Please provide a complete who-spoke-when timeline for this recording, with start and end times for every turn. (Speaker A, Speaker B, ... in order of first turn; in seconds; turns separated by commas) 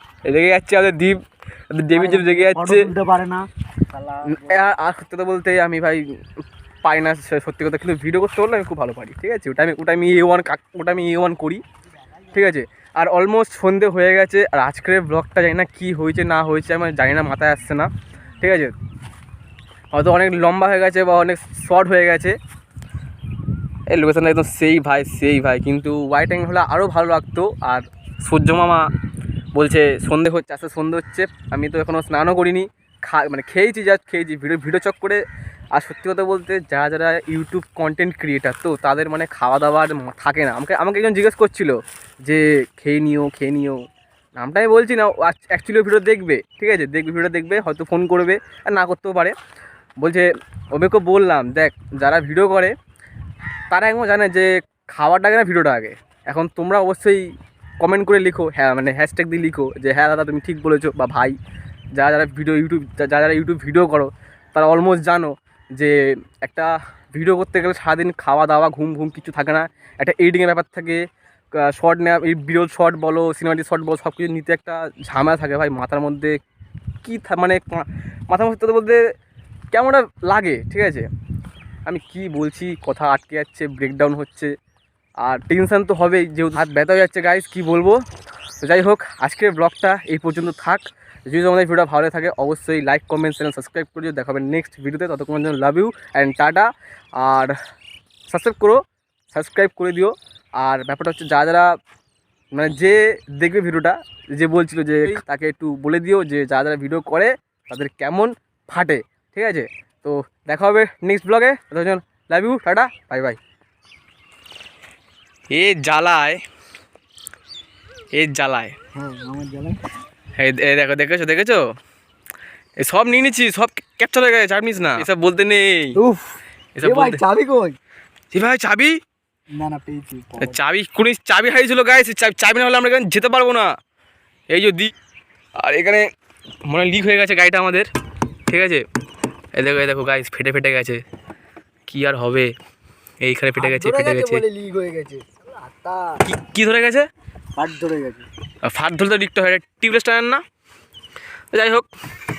Speaker A: 0.3-2.9, Speaker B: 1.9-4.7, Speaker A: 4.2-11.6, Speaker A: 12.3-17.9, Speaker A: 18.4-18.8, Speaker A: 19.9-22.4, Speaker A: 23.9-28.9, Speaker A: 29.6-35.2, Speaker A: 35.8-43.8, Speaker A: 44.4-49.4, Speaker A: 50.0-52.8, Speaker A: 53.7-61.4, Speaker A: 62.0-76.4, Speaker A: 77.0-79.0, Speaker A: 79.7-81.1, Speaker A: 81.9-84.5, Speaker A: 85.2-88.0, Speaker A: 88.6-97.6, Speaker A: 98.3-101.8, Speaker A: 102.5-113.4, Speaker A: 115.5-116.4, Speaker A: 118.1-118.8, Speaker B: 118.9-119.8, Speaker A: 120.4-121.7, Speaker A: 122.8-126.0, Speaker B: 126.0-127.8, Speaker A: 126.8-127.2, Speaker A: 128.3-129.0, Speaker B: 129.5-130.6, Speaker A: 130.4-133.7, Speaker A: 134.5-134.9, Speaker A: 135.6-136.1, Speaker A: 136.7-137.9, Speaker A: 138.5-138.9, Speaker A: 139.6-141.0, Speaker A: 141.9-142.5, Speaker A: 143.2-144.4, Speaker B: 143.6-146.2, Speaker A: 146.2-147.1, Speaker B: 147.6-148.3, Speaker A: 148.6-150.4, Speaker A: 151.5-151.9